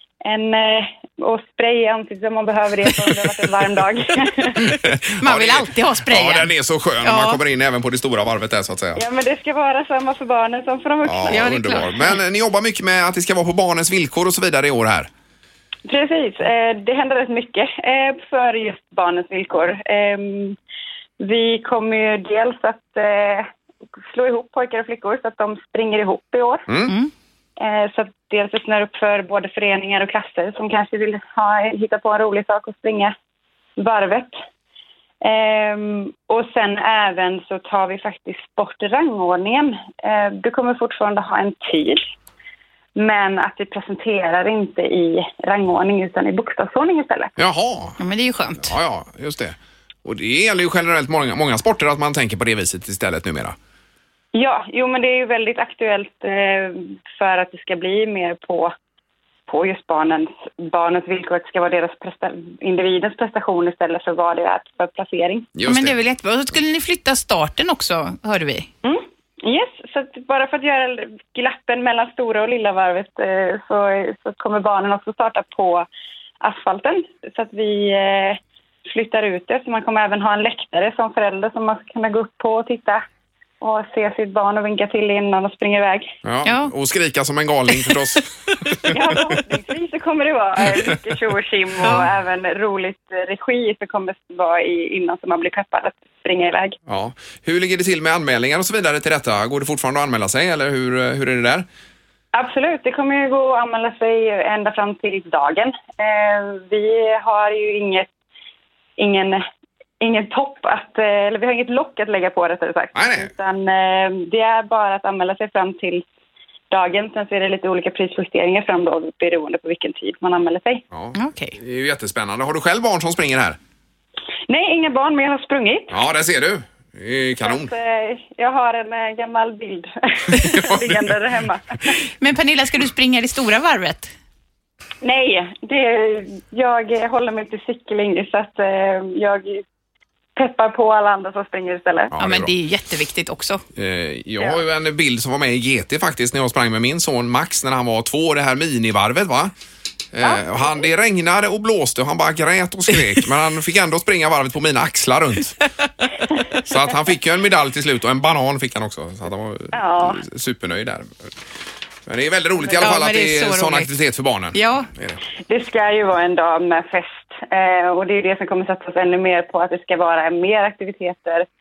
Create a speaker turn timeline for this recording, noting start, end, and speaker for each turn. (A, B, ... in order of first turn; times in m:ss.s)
0:00.2-0:04.6 A
0:04.7-0:09.0 B
0:05.2-0:07.4 C
0:08.9-0:11.7 A
0:11.0-0:15.1 B
0:11.3-0:12.2 C
0:15.8-0:20.6 A
0:21.2-0:23.5 A
0:24.1-0:26.7 A
0:27.6-0:33.1 A
0:33.8-0:34.4 A
0:35.2-0:42.0 A
0:43.0-0:47.3 A
0:47.4-0:48.0 B
0:48.0-0:48.7 C
0:48.6-0:53.6 B
0:54.3-0:58.7 A
0:59.5-1:05.5 A
1:05.6-1:06.0 B
1:05.6-1:08.7 C
1:08.8-1:15.9 A
1:16.4-1:23.0 A
1:23.6-1:26.1 A
1:26.2-1:28.3 B
1:26.4-1:26.7 C
1:28.8-1:29.3 B
1:28.8-1:36.8 A
1:36.9-1:41.7 B
1:42.3-1:48.1 A
1:49.0-1:49.4 A
1:50.0-1:56.0 A
1:52.9-1:53.3 B
1:56.7-2:00.8 A
2:00.9-2:03.6 B
2:01.1-2:01.6 C
2:04.5-2:06.0 A
2:05.9-2:07.7 B
2:07.4-2:11.9 A
2:10.5-2:11.1 B
2:12.2-2:14.1 C
2:15.0-2:19.6 A
2:20.4-2:22.1 A
2:22.1-2:22.5 B
2:22.2-2:23.6 C
2:23.8-2:29.5 B
2:30.1-2:35.6 B
2:36.6-2:41.3 B
2:39.7-2:40.2 A
2:42.0-2:45.2 B
2:42.8-2:43.9 C
2:44.5-2:44.9 C
2:45.5-2:51.5 A